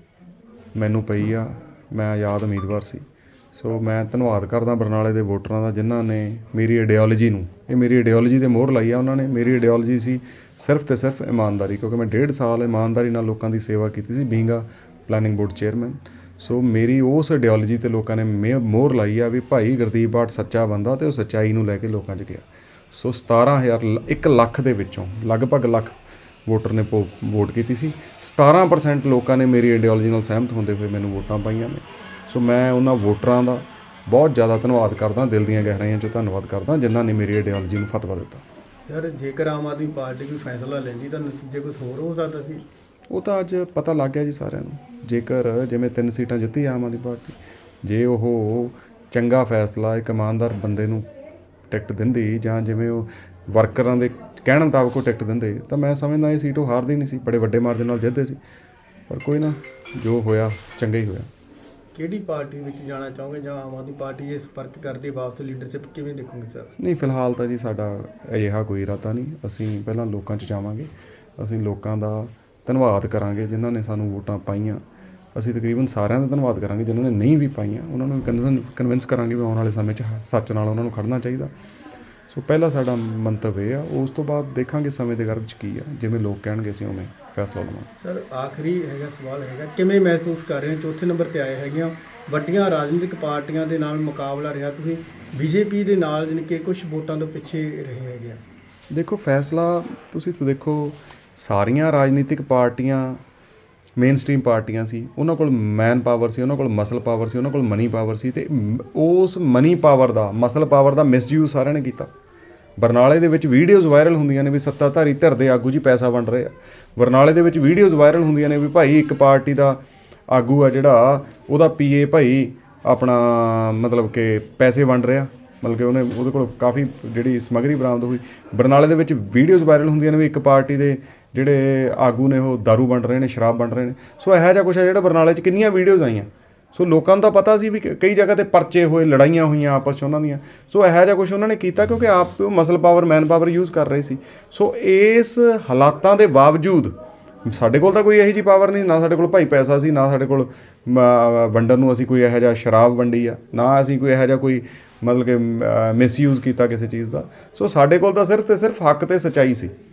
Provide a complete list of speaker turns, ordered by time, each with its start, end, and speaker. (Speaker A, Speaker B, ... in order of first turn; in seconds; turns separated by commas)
Speaker A: 0.7-25.9, Speaker A: 26.5-38.4, Speaker B: 38.9-42.6, Speaker A: 43.1-51.0, Speaker A: 51.7-58.4, Speaker A: 59.1-61.3, Speaker B: 61.9-66.7, Speaker A: 66.8-74.8, Speaker A: 75.3-81.5, Speaker A: 82.3-87.9, Speaker B: 88.0-98.4, Speaker A: 98.9-103.2, Speaker A: 104.0-112.1, Speaker A: 112.8-119.8, Speaker A: 120.3-146.9, Speaker A: 147.4-159.7